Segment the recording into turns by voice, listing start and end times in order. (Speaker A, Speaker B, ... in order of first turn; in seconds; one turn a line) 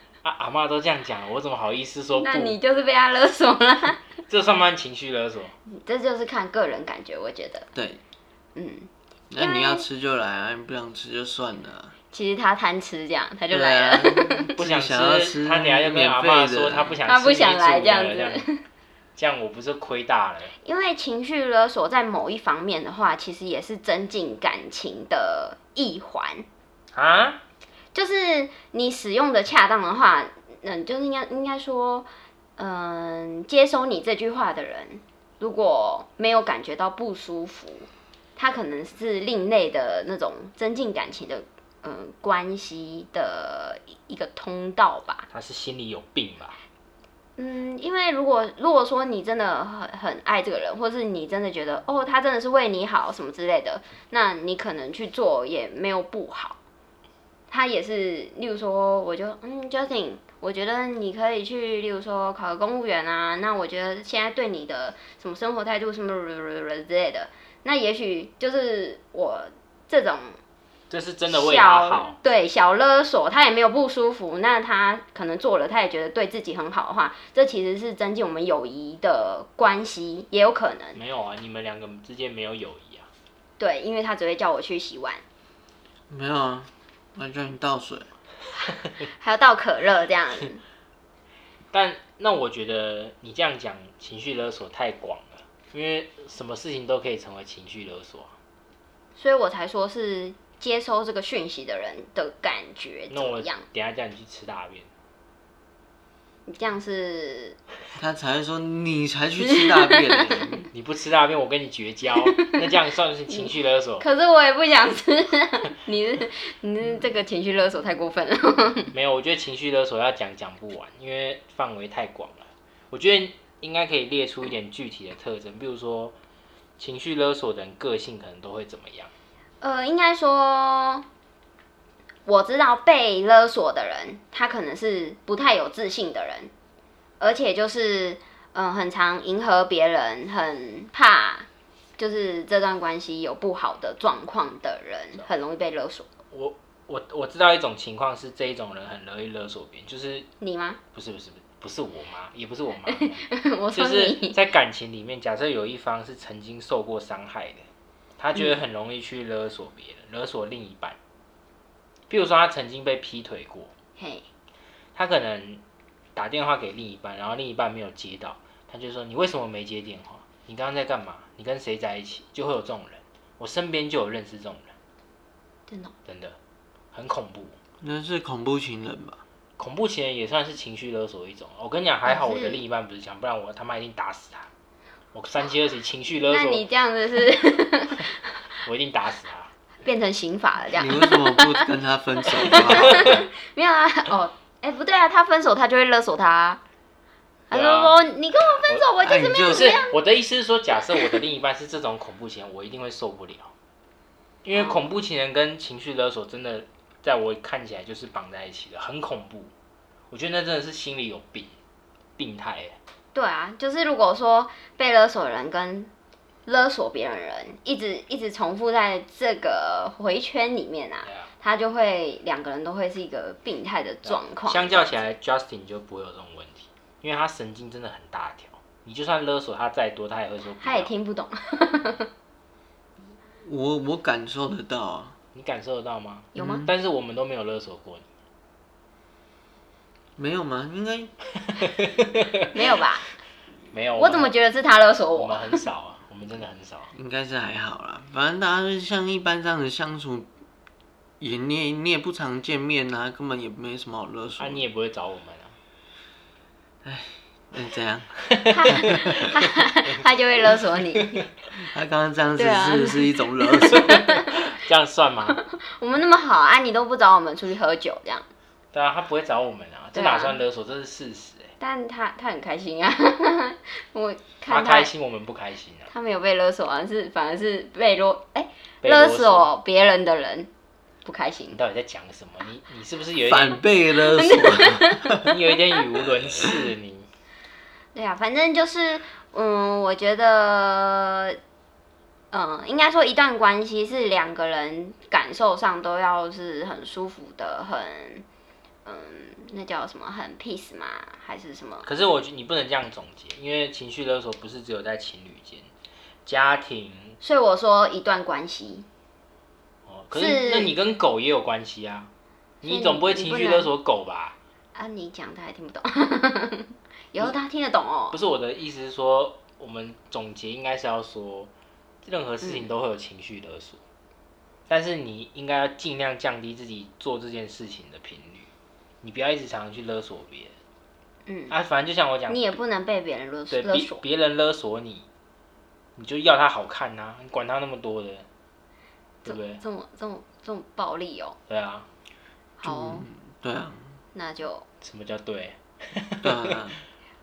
Speaker A: 0.2-2.6
Speaker B: 2.1-4.0
Speaker A: 4.3-5.5
Speaker B: 5.7-7.7
Speaker C: 7.8-8.0
Speaker B: 8.6-9.9
Speaker C: 9.3-11.9
Speaker B: 12.1-14.5
Speaker C: 13.5-17.0
Speaker A: 14.5-18.5
Speaker B: 17.0-18.6
Speaker A: 19.1-20.5
Speaker B: 20.6-26.4
Speaker A: 26.9-27.4
Speaker B: 27.9-45.3
Speaker A: 45.3-46.6
Speaker B: 47.4-56.6
Speaker B: 57.5-70.4
Speaker A: 70.9-72.2
Speaker B: 71.3-81.0
Speaker A: 80.9-83.1
Speaker B: 83.6-85.2
Speaker C: 86.1-88.1
Speaker B: 89.0-90.6
Speaker A: 91.7-98.3
Speaker B: 99.2-103.6
Speaker A: 103.1-104.9
Speaker B: 106.5-107.6
Speaker C: 108.0-110.7
Speaker B: 109.4-110.6
Speaker A: 110.7-114.0
Speaker B: 113.3-118.9
Speaker A: 118.9-126.1
Speaker A: 126.8-129.1
Speaker B: 129.6-131.0
Speaker B: 132.2-136.5
Speaker B: 137.2-141.5
Speaker B: 142.0-146.1
Speaker A: 146.3-150.3
Speaker B: 150.4-150.8
Speaker A: 150.9-153.2
Speaker B: 152.9-154.4
Speaker A: 153.8-157.7
Speaker A: 158.2-161.0
Speaker A: 162.1-163.7
Speaker B: 164.0-164.2
Speaker A: 164.9-165.6
Speaker A: 166.2-174.7
Speaker B: 175.7-175.9
Speaker A: 176.1-176.4
Speaker A: 176.9-177.6
Speaker C: 177.8-179.2
Speaker A: 179.6-184.5
Speaker B: 182.1-182.6
Speaker A: 185.1-186.6
Speaker B: 186.3-188.5
Speaker A: 188.6-189.5
Speaker B: 189.8-191.7
Speaker C: 190.8-193.2
Speaker B: 192.3-196.6
Speaker A: 197.5-198.0
Speaker B: 197.5-199.9
Speaker C: 199.0-199.7
Speaker A: 199.4-203.5
Speaker A: 204.4-209.5
Speaker B: 204.5-204.9
Speaker A: 210.1-211.5
Speaker A: 212.2-212.8
Speaker B: 213.1-215.9
Speaker B: 216.4-225.1
Speaker A: 224.0-230.9
Speaker B: 230.6-232.1
Speaker C: 233.4-235.1
Speaker A: 235.3-238.0
Speaker B: 236.3-236.7
Speaker C: 236.4-236.7
Speaker C: 240.2-241.1
Speaker A: 241.6-242.5
Speaker B: 242.5-243.1
Speaker A: 243.7-244.3
Speaker B: 243.9-245.6
Speaker A: 245.2-246.9
Speaker C: 246.9-250.3
Speaker C: 251.2-254.6
Speaker A: 254.4-255.6
Speaker C: 256.8-259.0
Speaker A: 258.5-259.1
Speaker B: 258.5-261.2
Speaker C: 261.6-264.0
Speaker B: 262.4-264.3
Speaker A: 263.9-265.4
Speaker B: 265.6-268.2
Speaker A: 268.7-271.5
Speaker B: 269.9-270.4
Speaker B: 271.6-274.9
Speaker A: 274.5-275.9
Speaker B: 275.9-280.5
Speaker A: 278.8-279.5
Speaker B: 281.0-281.6
Speaker A: 281.5-283.6
Speaker C: 283.2-285.4
Speaker B: 284.0-285.2
Speaker A: 285.2-287.1
Speaker B: 287.9-291.4
Speaker B: 292.3-298.2
Speaker B: 298.9-301.9
Speaker A: 301.8-305.7
Speaker A: 306.2-307.2
Speaker B: 307.2-308.9
Speaker A: 309.9-312.1
Speaker B: 310.1-310.8
Speaker A: 312.6-314.4
Speaker B: 312.6-313.7
Speaker B: 314.8-318.2
Speaker A: 318.1-321.5
Speaker A: 322.0-323.8
Speaker A: 324.7-328.5
Speaker A: 329.0-330.5
Speaker B: 331.2-331.5
Speaker A: 331.5-332.4
Speaker B: 332.3-334.0
Speaker A: 333.5-335.1
Speaker A: 335.9-338.2
Speaker B: 339.2-341.4
Speaker A: 339.2-339.6
Speaker A: 341.5-341.9
Speaker B: 342.6-343.0
Speaker C: 342.6-344.0
Speaker B: 344.1-344.6
Speaker A: 344.8-346.5
Speaker C: 346.2-346.8